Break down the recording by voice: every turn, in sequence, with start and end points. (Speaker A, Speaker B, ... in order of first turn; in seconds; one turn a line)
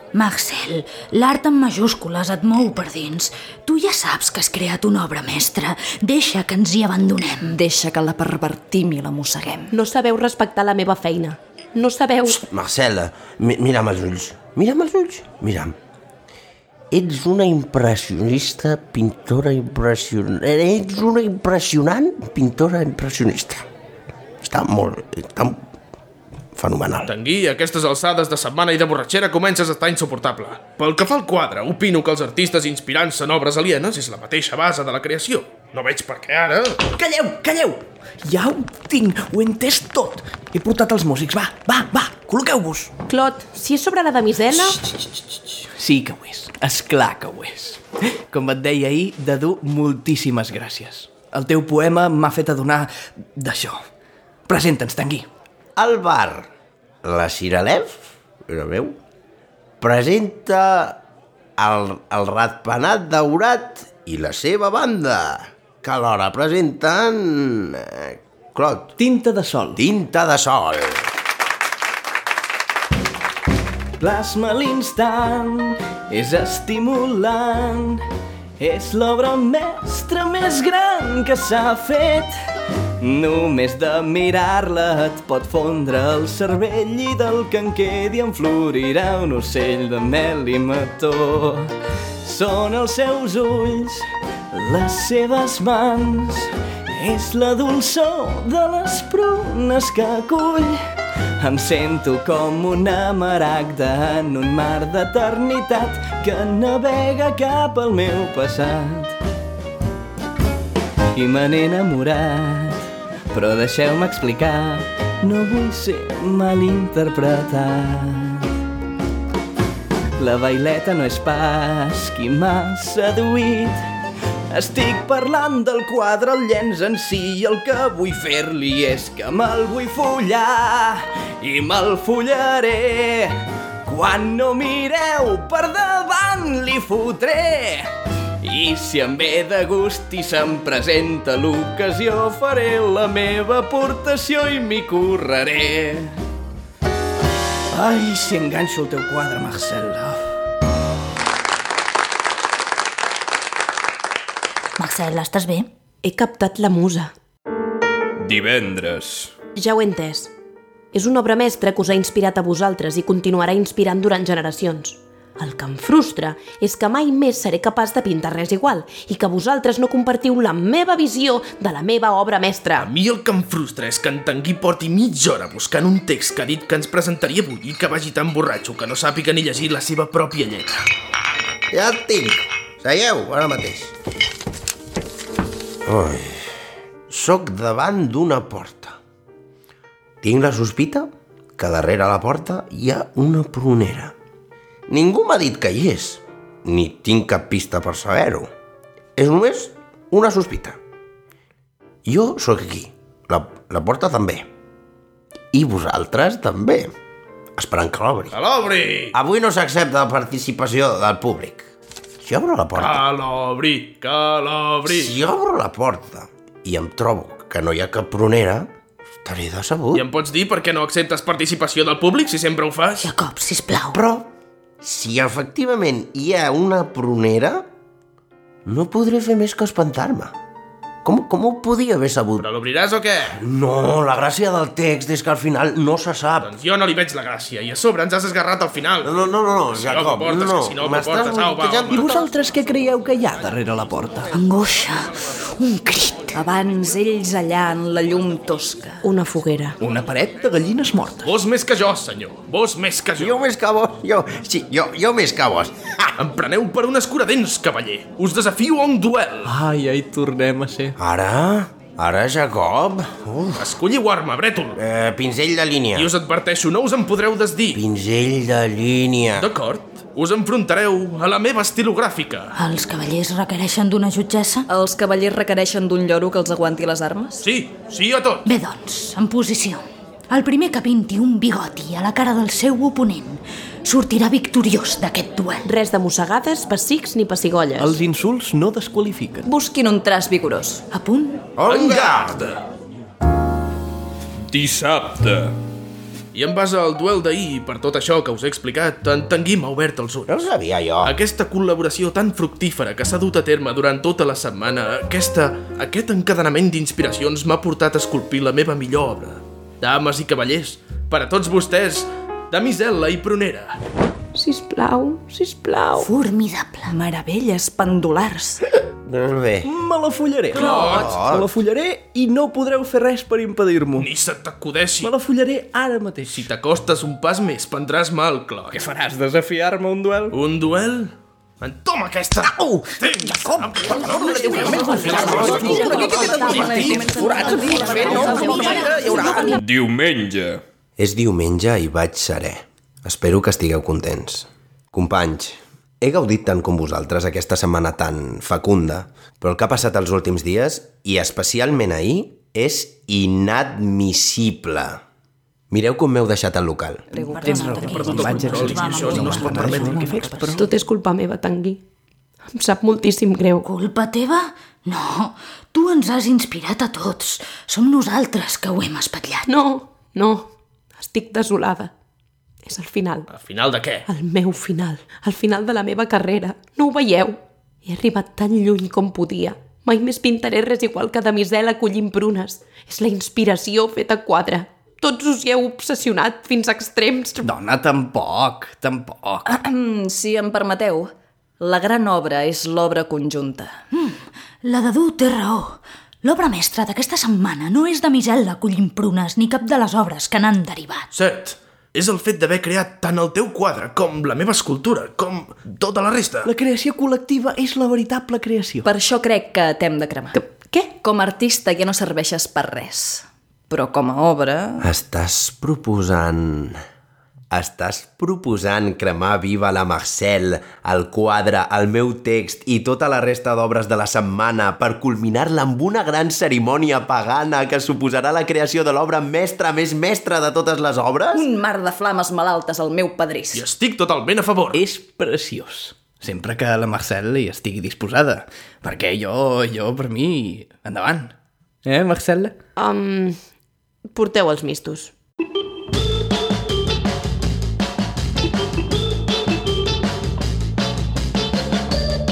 Speaker A: 0.1-7.5
Speaker B: 7.4-9.7
Speaker C: 9.7-12.4
Speaker D: 12.3-15.7
Speaker D: 16.9-23.6
Speaker D: 24.4-25.6
Speaker D: 26.6-27.1
Speaker E: 27.0-36.9
Speaker F: 36.9-42.9
Speaker C: 43.1-44.8
Speaker F: 45.8-53.8
Speaker F: 54.5-55.3
Speaker D: 55.8-56.5
Speaker D: 57.0-59.0
Speaker D: 59.8-61.0
Speaker D: 61.6-68.9
Speaker F: 69.0-69.8
Speaker D: 69.8-71.1
Speaker F: 74.0-78.0
Speaker F: 78.6-82.3
Speaker F: 83.0-100.8
Speaker F: 101.4-109.2
Speaker F: 111.1-118.5
Speaker F: 120.2-123.8
Speaker F: 124.5-146.1
Speaker F: 147.7-150.2
Speaker A: 154.8-155.7
Speaker C: 156.0-157.1
Speaker G: 158.2-159.3
Speaker C: 159.5-160.3
Speaker C: 160.9-172.9
Speaker E: 172.8-180.8
Speaker D: 181.7-183.9
Speaker D: 185.8-186.4
Speaker D: 187.1-189.0
Speaker D: 190.2-194.1
Speaker D: 194.9-198.5
Speaker D: 199.2-200.8
Speaker D: 202.0-204.5
Speaker D: 205.5-206.9
Speaker D: 207.6-208.3
Speaker E: 208.3-209.2
Speaker D: 209.1-211.7
Speaker D: 212.2-213.0
Speaker E: 212.8-215.2
Speaker D: 214.8-218.7
Speaker D: 219.2-220.0
Speaker E: 219.9-223.1
Speaker A: 223.0-224.0
Speaker D: 223.9-224.3
Speaker D: 224.8-227.7
Speaker D: 228.7-230.3
Speaker D: 231.0-232.5
Speaker E: 232.4-233.4
Speaker D: 233.3-236.5
Speaker E: 236.4-239.1
Speaker D: 239.0-242.1
Speaker E: 239.7-242.1
Speaker F: 242.0-244.3
Speaker A: 244.3-246.4
Speaker B: 246.3-249.0
Speaker C: 249.0-249.8
Speaker F: 249.8-251.3
Speaker E: 251.2-253.4
Speaker D: 253.2-256.1
Speaker E: 256.2-259.5
Speaker F: 259.4-260.9
Speaker D: 261.0-263.7
Speaker E: 263.6-264.8
Speaker D: 264.7-266.1
Speaker E: 265.9-267.8
Speaker D: 267.7-269.4
Speaker E: 269.4-272.5
Speaker A: 272.5-274.7
Speaker B: 274.7-277.4
Speaker E: 277.4-278.5
Speaker A: 278.4-285.7
Speaker C: 285.6-288.0
Speaker F: 287.8-289.5
Speaker B: 289.4-290.9
Speaker A: 290.9-291.5
Speaker D: 291.6-292.4
Speaker E: 291.6-292.6
Speaker G: 294.5-295.5
Speaker E: 296.3-300.5
Speaker D: 300.3-301.1
Speaker E: 301.0-313.8
Speaker C: 314.3-316.1
Speaker A: 315.9-316.9
Speaker B: 316.9-318.6
Speaker D: 319.1-319.7
Speaker F: 319.6-324.1
Speaker E: 320.5-321.2
Speaker D: 320.9-321.5
Speaker E: 324.0-325.1
Speaker F: 325.0-326.4
Speaker E: 326.3-328.8
Speaker F: 328.7-330.4
Speaker E: 330.3-337.0
Speaker B: 337.0-337.7
Speaker F: 337.2-339.5
Speaker G: 339.6-340.6
Speaker D: 341.0-355.0
Speaker D: 355.7-357.1
Speaker B: 357.1-358.2
Speaker A: 357.3-360.3
Speaker F: 357.3-360.6
Speaker E: 357.8-360.2
Speaker C: 360.6-361.8
Speaker C: 362.5-363.7
Speaker A: 363.6-369.5
Speaker C: 369.5-371.9
Speaker C: 372.6-373.3
Speaker E: 373.3-374.1
Speaker C: 374.1-387.5
Speaker F: 387.4-389.5
Speaker B: 389.5-393.8
Speaker A: 393.9-401.1
Speaker E: 401.1-406.5
Speaker F: 406.4-408.9
Speaker B: 408.8-414.9
Speaker D: 414.8-416.8
Speaker D: 417.5-431.5
Speaker B: 431.3-433.6
Speaker E: 433.5-434.8
Speaker F: 434.7-442.6
Speaker C: 442.8-443.4
Speaker C: 444.1-445.1